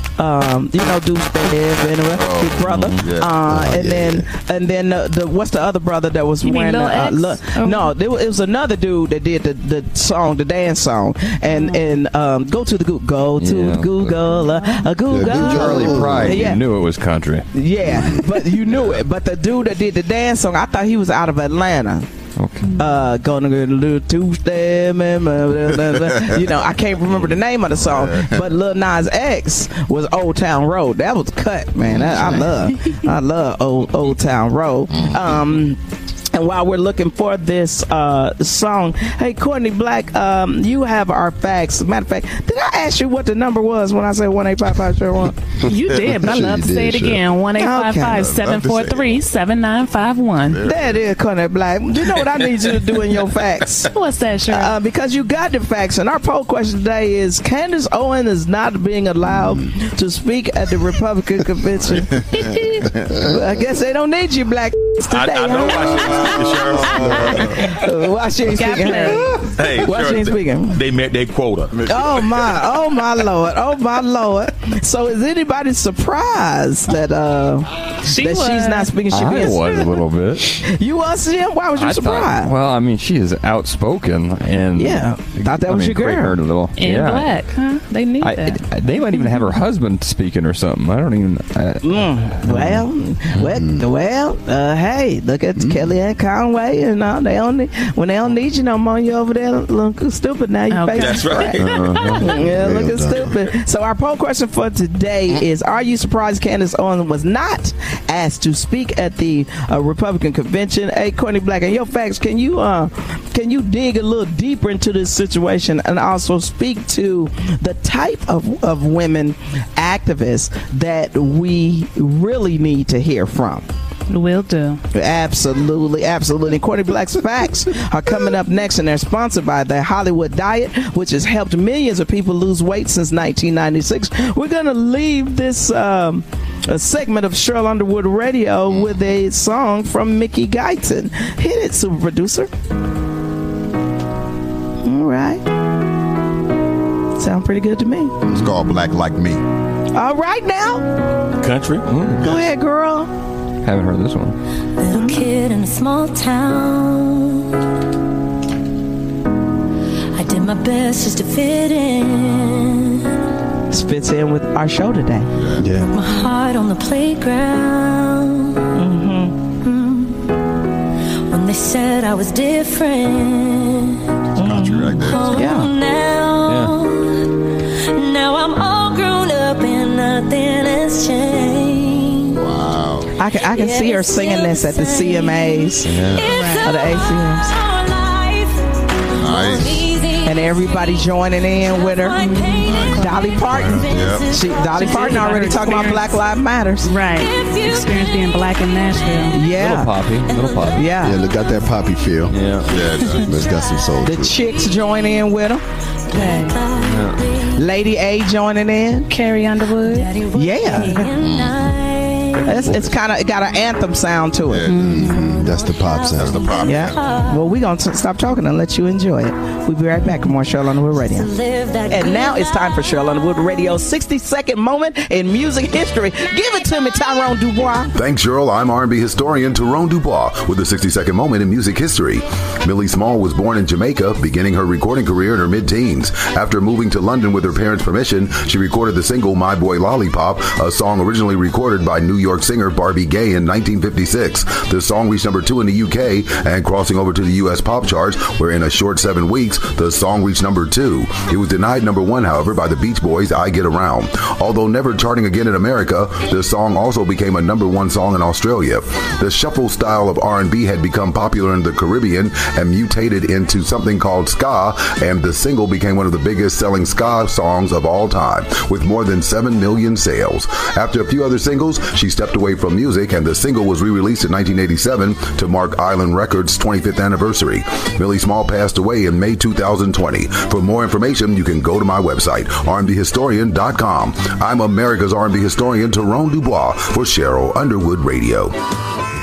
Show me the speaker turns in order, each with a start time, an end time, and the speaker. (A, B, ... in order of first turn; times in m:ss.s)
0:00.2-0:16.6 A
0:02.2-0:03.3 B
0:02.7-0:03.0 C
0:03.4-0:04.3 D
0:06.4-0:08.0 E
0:11.5-0:12.0 E
0:13.4-0:14.4 C
0:15.1-0:16.6 D
0:15.2-0:16.2 B
0:15.2-0:18.0 C
0:17.5-0:22.1 A
0:17.8-0:18.3 D
0:22.4-0:22.8 C
0:22.8-0:35.8 A
0:27.9-0:28.4 B
0:32.0-0:32.5 B
0:35.0-0:35.2 B
0:36.3-0:45.4 A
0:45.6-0:50.6 E
0:46.0-0:47.2 D
0:47.6-0:48.3 A
0:48.2-0:49.2 B
0:50.5-0:51.1 B
0:50.6-0:53.9 A
0:53.9-0:54.8 E
0:54.5-1:02.5 A
1:02.3-1:03.1 B
1:03.0-1:06.4 A
1:05.1-1:07.8 F
1:06.0-1:07.6 B
1:06.9-1:10.8 A
1:08.5-1:09.4 E
1:09.5-1:11.9 F
1:11.8-1:12.4 B
1:11.9-1:19.9 A
1:18.0-1:19.5 E
1:19.1-1:20.6 C
1:20.6-1:22.5 A
1:21.8-1:27.4 C
1:24.8-1:26.4 A
1:26.8-1:29.5 E
1:28.2-1:32.7 C
1:31.8-1:41.5 A
1:33.4-1:33.8 D
1:35.6-1:35.9 D
1:40.7-1:41.5 E
1:41.0-1:42.3 F
1:41.6-1:43.4 D
1:41.8-1:42.1 C
1:42.2-2:03.7 A
2:04.1-2:04.8 E
2:04.9-2:22.5 A
2:24.8-2:25.4 A
2:27.2-2:28.2 A
2:28.2-2:29.4 B
2:29.9-2:30.9 A
2:31.4-2:32.4 F
2:32.2-2:33.1 A
2:33.6-2:34.4 C
2:34.8-2:37.4 G
2:40.2-2:43.1 G
2:43.7-2:45.3 A
2:45.4-2:45.7 B
2:45.6-2:45.9 D
2:45.9-2:48.6 G
2:48.7-2:49.4 A
2:49.6-2:50.1 G
2:51.3-2:57.2 G
2:54.4-2:55.7 A
2:54.4-2:55.5 B
2:56.5-2:56.8 C
2:57.9-3:02.4 G
3:02.4-3:03.1 B
3:03.2-3:05.9 A
3:03.3-3:16.0 G
3:05.8-3:06.2 C
3:06.3-3:06.7 E
3:06.6-3:07.5 A
3:09.2-3:09.9 B
3:10.2-3:12.2 A
3:12.2-3:12.7 E
3:12.6-3:14.2 B
3:13.0-3:16.9 A
3:14.8-3:16.1 E
3:16.8-3:19.4 E
3:17.0-3:19.6 G
3:19.3-3:19.9 A
3:19.6-3:20.9 C
3:20.3-3:21.5 G
3:20.7-3:21.2 A
3:21.0-3:22.4 D
3:22.3-3:22.8 C
3:22.7-3:23.7 B
3:22.7-3:25.1 G
3:23.2-3:24.4 D
3:24.0-3:25.6 A
3:26.1-3:27.7 G
3:26.1-3:26.6 E
3:26.8-3:27.2 C
3:27.6-3:29.1 A
3:29.1-3:30.1 E
3:29.6-3:32.9 G
3:30.4-3:31.1 A
3:31.2-3:31.7 B
3:32.5-3:34.7 A
3:34.5-3:35.4 B
3:34.7-3:35.1 E
3:34.7-3:37.5 G
3:35.0-3:36.4 D
3:36.2-3:37.0 B
3:36.6-3:41.3 A
3:40.0-3:43.2 G
3:41.9-3:47.9 A
3:47.9-4:48.6 H